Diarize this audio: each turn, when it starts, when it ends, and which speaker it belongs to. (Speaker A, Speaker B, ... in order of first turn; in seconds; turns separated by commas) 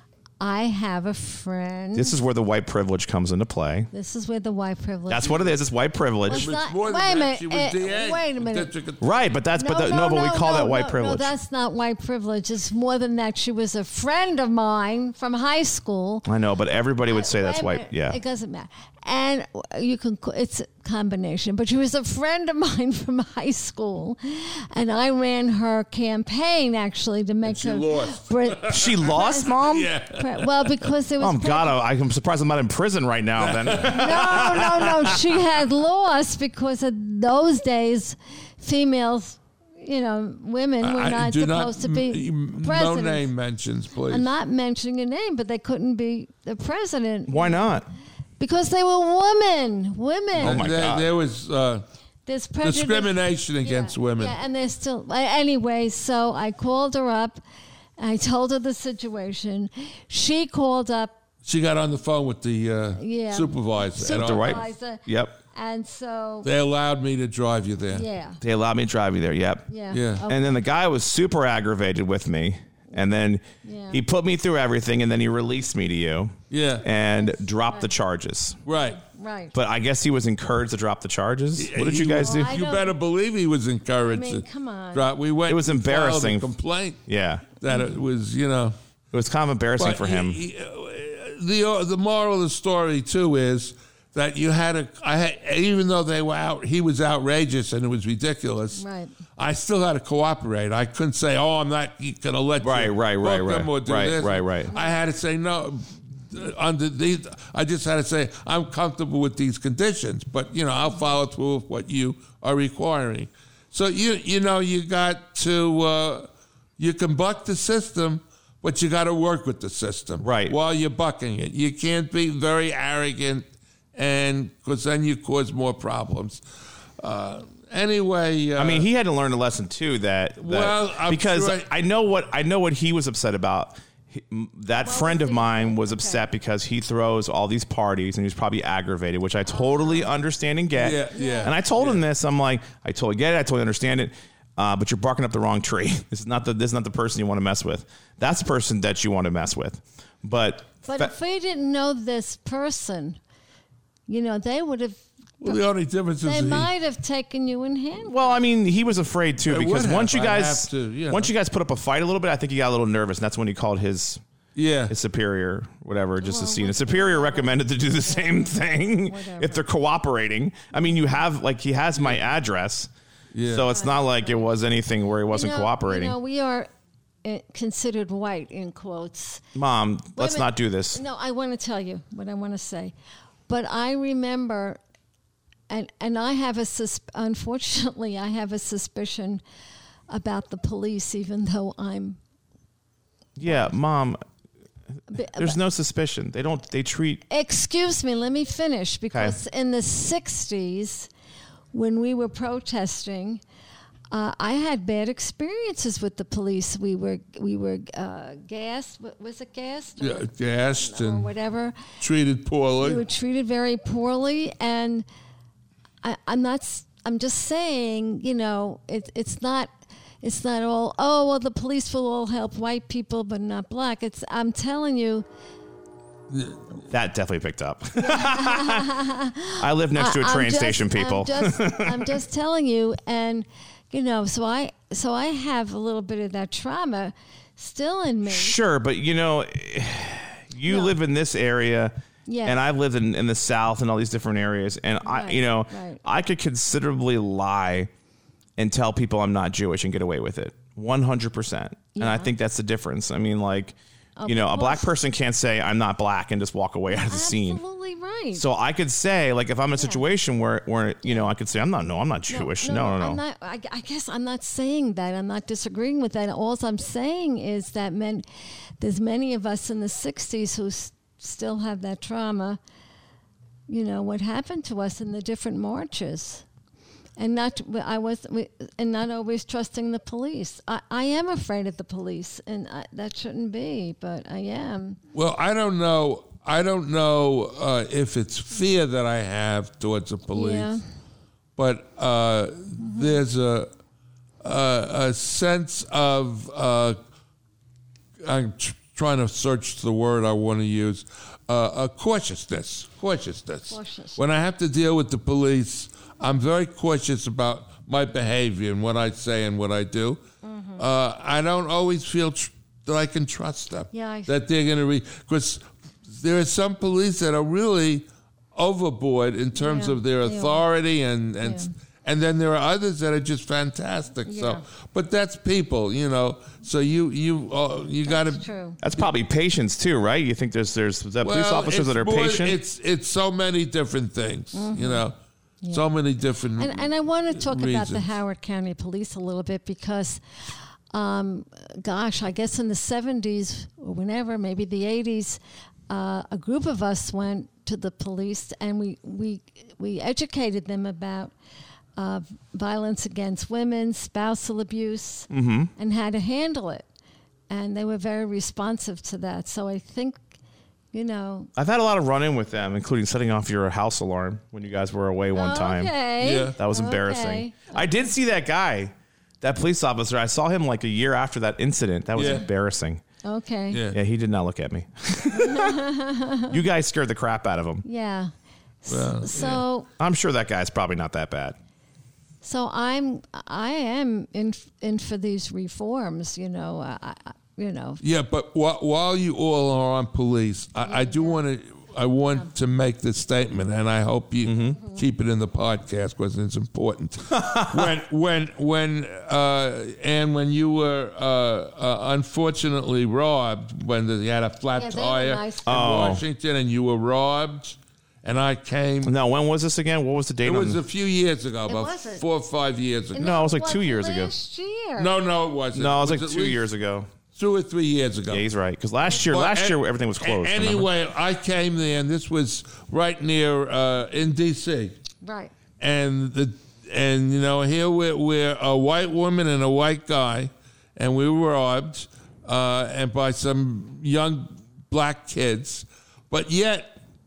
Speaker A: 0.4-2.2, Speaker B: 1.9-3.9, Speaker A: 3.9-5.5, Speaker B: 5.1-6.5, Speaker A: 6.2-8.7, Speaker C: 6.3-9.3, Speaker B: 9.0-11.3, Speaker A: 9.5-16.3, Speaker B: 16.2-18.2, Speaker A: 17.1-31.8, Speaker C: 27.4-29.1, Speaker B: 28.7-29.9, Speaker C: 29.6-30.9, Speaker B: 31.2-35.2, Speaker C: 33.4-35.2, Speaker A: 33.8-43.3, Speaker C: 40.8-44.3, Speaker A: 44.1-47.8, Speaker B: 47.3-47.9, Speaker A: 48.4-50.7, Speaker B: 50.4-51.1, Speaker C: 50.4-51.9, Speaker A: 52.2-57.4, Speaker C: 52.6-54.4, Speaker A: 58.0-61.1, Speaker C: 61.4-64.6, Speaker A: 63.0-66.5, Speaker B: 64.0-65.3, Speaker C: 66.4-68.0, Speaker A: 67.9-68.4, Speaker B: 68.4-69.7, Speaker A: 69.7-70.6, Speaker C: 69.9-70.2, Speaker B: 70.2-78.6, Speaker A: 73.6-74.0, Speaker C: 76.5-76.8, Speaker A: 77.2-77.9, Speaker C: 78.7-79.0, Speaker A: 78.7-79.5, Speaker B: 79.5-82.5, Speaker C: 81.5-87.0, Speaker A: 82.1-83.0, Speaker A: 84.0-85.1, Speaker B: 85.5-86.5, Speaker B: 87.1-87.5, Speaker C: 87.6-88.7, Speaker B: 89.1-90.4, Speaker C: 89.8-98.8, Speaker A: 98.8-99.1, Speaker C: 99.4-126.4, Speaker B: 102.6-104.7, Speaker A: 104.7-105.0, Speaker B: 120.2-120.5, Speaker C: 127.0-128.9, Speaker B: 128.6-151.1, Speaker C: 130.4-131.7, Speaker A: 134.8-136.3, Speaker A: 139.5-140.1, Speaker C: 140.7-142.0, Speaker A: 141.1-141.5, Speaker A: 150.8-153.2, Speaker A: 154.1-155.6, Speaker C: 155.4-156.7, Speaker A: 156.2-158.4, Speaker B: 158.0-164.2, Speaker C: 159.5-161.3, Speaker C: 164.5-164.9, Speaker B: 164.9-172.9, Speaker A: 166.2-169.6, Speaker A: 170.8-171.2, Speaker C: 171.9-172.2, Speaker C: 173.3-173.7, Speaker B: 173.4-176.2, Speaker A: 173.7-174.5, Speaker A: 175.3-176.7, Speaker A: 177.2-179.4, Speaker B: 179.5-181.0, Speaker A: 180.2-182.9, Speaker A: 183.5-184.8, Speaker A: 185.7-189.4, Speaker A: 190.1-192.2, Speaker B: 193.4-194.2, Speaker A: 193.4-193.8, Speaker A: 195.1-195.6, Speaker B: 195.2-197.2, Speaker A: 197.3-201.1, Speaker B: 199.1-199.4, Speaker A: 201.7-203.4, Speaker A: 204.1-211.8, Speaker C: 210.0-211.3, Speaker C: 212.0-213.0, Speaker A: 212.8-215.1, Speaker A: 216.0-219.7, Speaker A: 220.2-225.2, Speaker C: 226.3-226.8, Speaker B: 226.9-228.9, Speaker A: 228.0-238.6, Speaker B: 229.6-232.2, Speaker B: 238.2-247.9, Speaker A: 240.7-240.9, Speaker A: 242.3-242.6, Speaker A: 245.0-246.0, Speaker B: 248.6-257.6, Speaker A: 251.9-252.3, Speaker A: 254.2-255.0, Speaker A: 256.9-258.4, Speaker B: 258.3-263.2, Speaker A: 259.7-260.0, Speaker A: 262.3-268.2, Speaker A: 268.8-272.6, Speaker A: 273.7-276.4, Speaker A: 277.2-285.0, Speaker C: 285.1-290.8, Speaker A: 290.3-290.8, Speaker C: 291.6-293.7, Speaker A: 292.8-293.2, Speaker C: 294.4-297.0, Speaker C: 298.2-310.2, Speaker A: 303.7-304.2, Speaker A: 310.4-310.9, Speaker C: 310.8-328.4, Speaker A: 313.9-314.3, Speaker A: 319.6-320.7, Speaker A: 321.4-321.7, Speaker A: 324.2-324.6, Speaker A: 328.0-328.8, Speaker B: 328.8-332.6, Speaker C: 331.2-335.1, Speaker A: 334.5-335.1, Speaker C: 335.7-338.2, Speaker A: 336.6-340.2, Speaker A: 340.9-351.3, Speaker A: 351.9-356.9, Speaker B: 355.3-355.7, Speaker A: 357.5-360.2, Speaker A: 360.9-361.5, Speaker B: 361.6-365.9, Speaker A: 365.3-368.0, Speaker C: 366.2-366.6, Speaker B: 366.5-373.0, Speaker C: 372.1-372.5, Speaker A: 373.2-373.8, Speaker C: 373.7-374.0, Speaker B: 373.9-375.9, Speaker A: 375.3-376.6, Speaker B: 376.5-377.8, Speaker A: 377.8-378.3, Speaker A: 378.8-379.9, Speaker C: 378.9-379.6, Speaker B: 380.0-381.6, Speaker A: 382.4-388.0, Speaker C: 388.0-409.1, Speaker A: 390.8-391.4, Speaker B: 394.4-394.8, Speaker B: 397.4-397.9, Speaker A: 404.8-405.8, Speaker B: 405.7-406.2, Speaker B: 409.0-410.8, Speaker C: 410.4-413.3, Speaker A: 411.6-412.2, Speaker A: 413.1-415.1, Speaker B: 413.1-414.3, Speaker C: 415.0-416.6, Speaker B: 415.7-417.1, Speaker C: 417.3-418.5, Speaker B: 418.3-420.9, Speaker C: 419.1-425.0, Speaker A: 425.2-425.5, Speaker C: 425.8-437.0